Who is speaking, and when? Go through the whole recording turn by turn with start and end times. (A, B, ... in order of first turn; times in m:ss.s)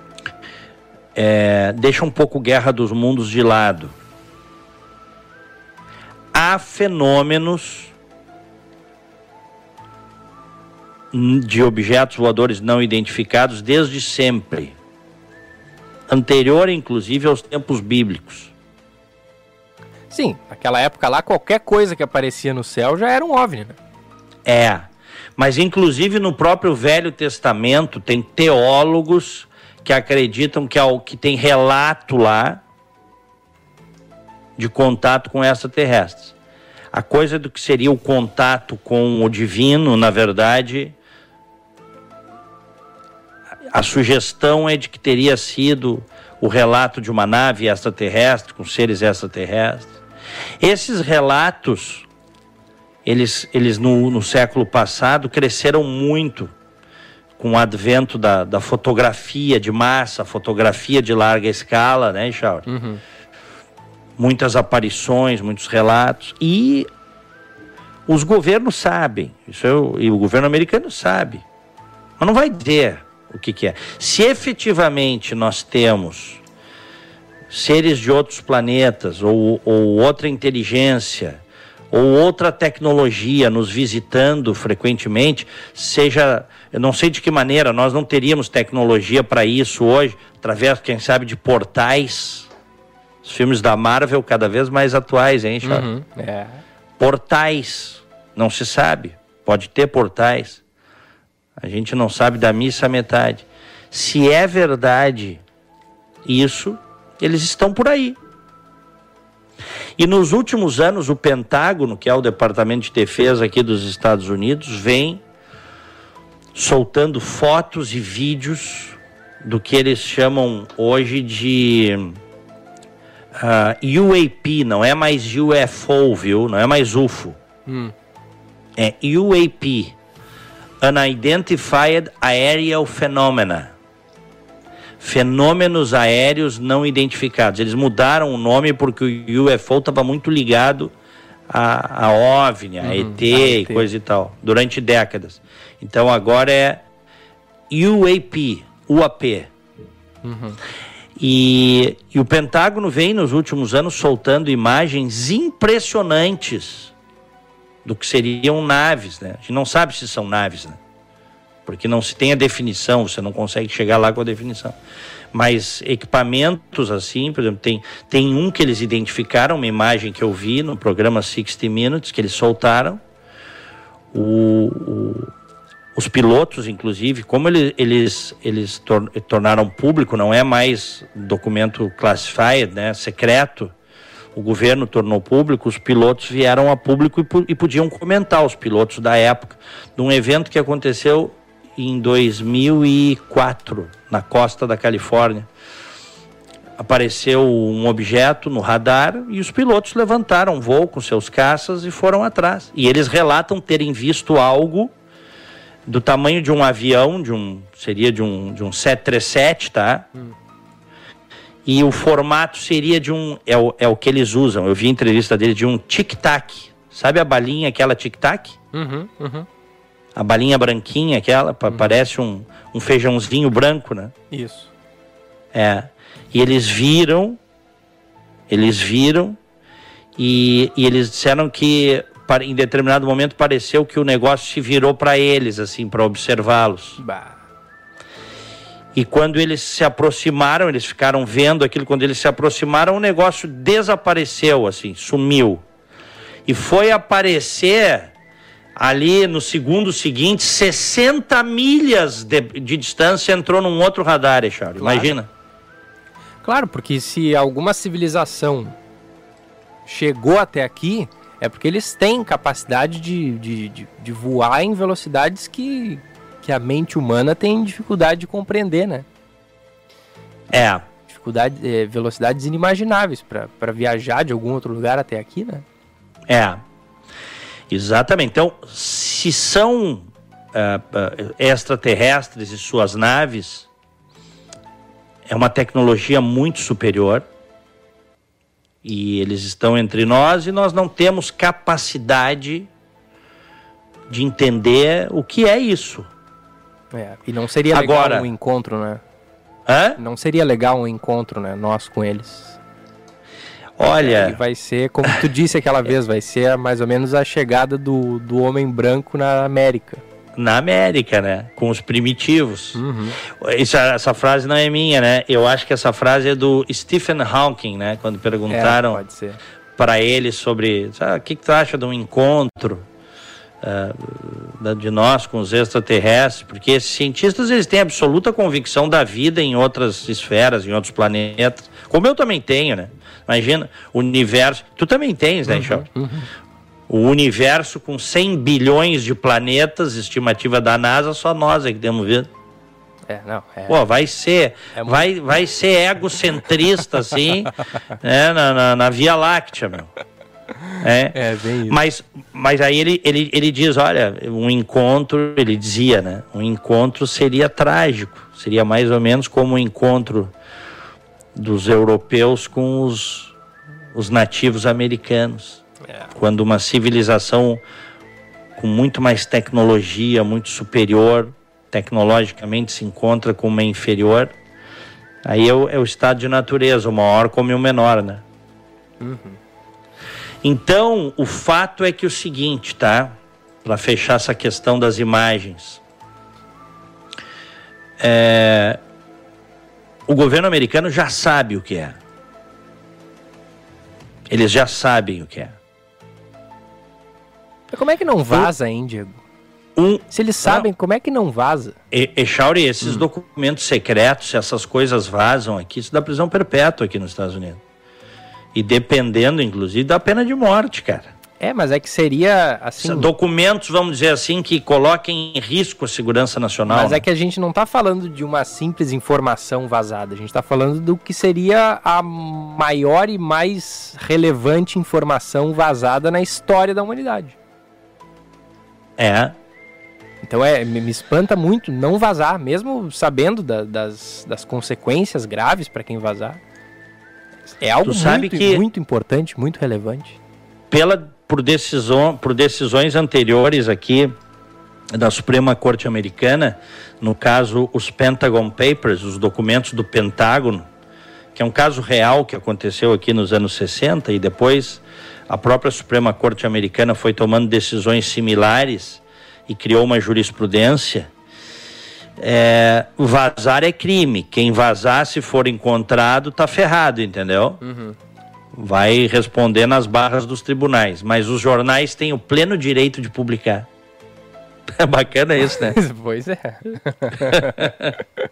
0:01.1-0:03.9 A
0:06.3-0:07.9 A
0:11.1-0:14.8 A
0:16.1-0:18.5 A
0:20.1-0:23.8 B
0:24.4-0:32.6 A
0:34.6-0:36.3 A
0:36.9-0:40.9 A
0:43.7-0:50.0 A
0:50.6-0:52.0 A
0:53.0-0:56.5 A
0:57.4-1:02.6 A
1:02.7-1:03.0 B
1:04.2-1:06.9 A
1:08.1-1:11.4 A
1:12.2-1:16.4 A
1:17.5-1:32.5 A
1:33.2-1:35.8 A
1:35.6-1:36.6 B
1:37.0-1:40.6 A
1:41.6-1:45.4 A
1:46.2-1:48.2 A
1:50.0-1:55.2 A
1:56.5-2:02.2 A
2:03.4-2:07.4 A
2:07.7-2:07.9 B
2:08.8-2:09.9 A
2:10.8-2:13.7 A
2:15.0-2:20.9 A
2:21.5-2:26.8 A
2:22.8-2:23.9 B
2:27.7-2:29.5 A
2:30.2-2:30.6 B
2:31.2-2:36.9 A
2:37.8-2:40.8 A
2:41.6-2:44.8 A
2:45.3-2:53.0 A
2:54.1-2:55.3 A
2:55.9-3:03.7 A
3:04.3-3:15.5 A
3:16.8-3:24.9 A
3:25.9-3:30.1 A
3:31.6-3:38.6 A
3:38.7-3:39.4 B
3:40.1-3:44.1 A
3:44.3-3:44.7 B
3:45.5-3:47.4 A
3:48.5-3:49.4 A
3:50.2-3:57.0 A
3:57.0-3:57.4 B
3:58.9-4:05.6 A
4:06.4-4:08.1 A
4:08.8-4:15.3 A
4:14.8-4:15.2 B
4:16.4-4:18.7 B
4:19.9-4:29.0 B
4:30.5-4:30.8 A
4:31.1-4:35.6 B
4:36.3-4:36.6 A
4:37.7-4:43.7 A
4:45.3-4:47.2 A
4:48.8-4:52.7 A
4:54.1-4:56.1 A
4:56.9-4:59.0 B
4:57.7-4:58.3 A
4:59.6-5:00.0 A
5:00.0-5:02.6 B
5:03.8-5:04.4 A
5:03.8-5:10.0 B
5:10.4-5:19.0 A
5:12.7-5:13.2 B
5:18.5-5:19.4 B
5:19.8-5:22.8 A
5:23.6-5:35.8 A
5:35.5-5:36.3 B
5:36.9-5:42.3 A
5:43.1-5:43.8 B
5:43.7-5:49.9 A
5:44.7-5:45.0 B
5:50.8-6:00.3 A
5:51.1-5:51.8 B
6:01.3-6:03.3 A
6:03.9-6:07.6 A
6:08.6-6:14.4 A
6:15.2-6:18.2 A
6:19.0-6:19.4 B
6:20.4-6:25.8 A
6:28.0-6:28.8 A
6:30.1-6:32.0 A
6:34.3-6:35.6 A
6:37.7-6:39.2 B
6:39.8-6:40.7 A
6:40.1-6:41.8 B
6:41.9-6:47.6 A
6:48.5-6:51.1 A
6:51.4-6:53.1 B
6:52.8-6:57.0 A
6:56.7-7:07.4 B
7:09.0-7:09.3 A
7:10.2-7:16.4 B
7:17.6-7:20.2 B
7:17.8-7:18.6 A
7:20.7-7:24.1 A
7:24.9-7:30.7 A
7:31.3-7:41.1 A
7:42.2-7:47.6 A
7:47.6-7:47.9 B
7:48.5-7:53.7 A
7:54.7-7:55.8 A
7:55.6-7:57.6 B
7:57.3-7:58.0 A